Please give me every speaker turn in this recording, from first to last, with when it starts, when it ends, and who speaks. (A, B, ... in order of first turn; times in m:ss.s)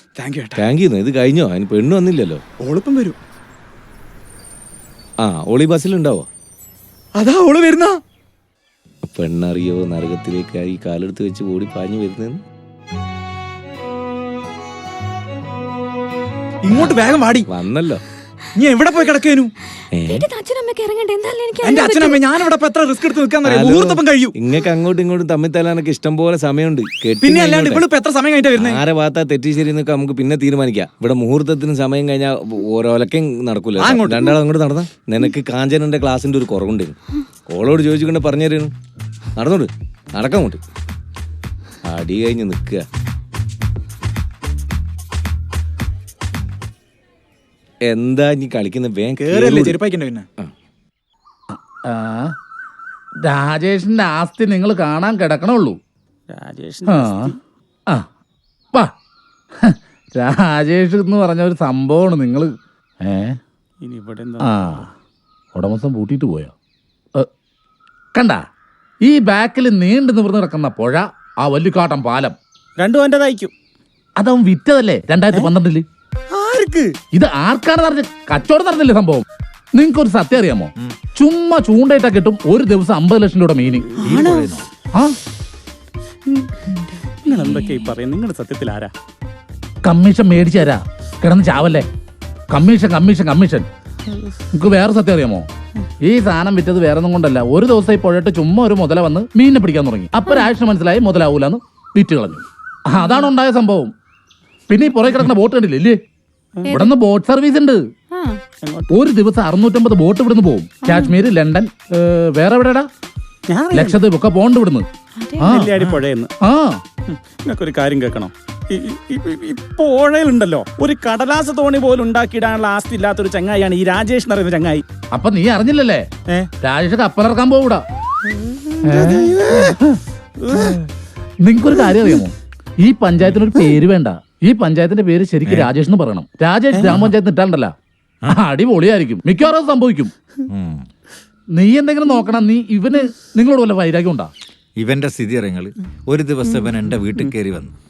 0:00.2-0:00.7 A
0:00.7-0:02.4 B
0:02.6-0:03.2 A
0:05.2-0:06.2 B
0:07.1-0:08.0 A
0:09.0-0:12.4 B
0:16.6-0:17.7 A
0:18.6-0:19.5 A
0:20.0-0:22.2 C
0:21.6-0:24.7 A
0:24.7-0:27.6 B
0:27.2-0:28.9 A
0:28.7-0:33.8 B
0:33.8-0:34.6 A
0:34.4-0:36.9 B
0:37.5-0:38.7 B
0:39.4-0:40.6 B
0:41.9-0:42.8 B
0:47.9-0:49.5 B
0:49.1-0:50.3 A
0:51.5-0:52.3 D
0:53.2-0:55.8 D
0:56.3-0:57.4 E
0:56.9-0:57.3 D
0:59.6-1:03.4 D
1:03.8-1:04.5 E
1:04.4-1:04.9 D
1:05.5-1:06.5 D
1:08.1-1:08.4 D
1:09.0-1:12.4 D
1:12.8-1:13.5 E
1:14.2-1:15.8 D
1:16.3-1:16.9 E
1:17.1-1:24.0 D
1:24.0-1:24.5 E
1:24.0-1:24.7 F
1:26.7-1:27.9 C
1:27.3-1:28.9 E
1:29.8-1:31.8 D
1:32.5-1:33.7 D
1:34.5-1:35.4 D
1:36.0-1:43.9 D
1:44.7-1:46.0 D
1:46.6-1:46.9 C
1:46.7-1:47.8 D
1:48.1-1:48.4 C
1:48.6-1:48.9 E
1:48.9-1:52.9 D
1:50.8-1:51.2 C
1:53.5-1:54.0 E
1:53.7-1:54.8 D
1:55.2-1:55.5 C
1:55.4-1:55.7 D
1:55.5-1:56.3 E
1:56.4-1:56.8 D
1:57.1-2:04.8 E
2:05.1-2:06.0 D
2:06.6-2:07.8 D
2:08.3-2:09.8 E
2:08.9-2:10.0 D
2:10.4-2:10.8 E
2:11.4-2:17.7 D
2:15.4-2:15.7 F
2:18.3-2:20.1 D
2:20.5-2:20.8 F
2:21.6-2:24.3 D
2:24.8-2:27.7 F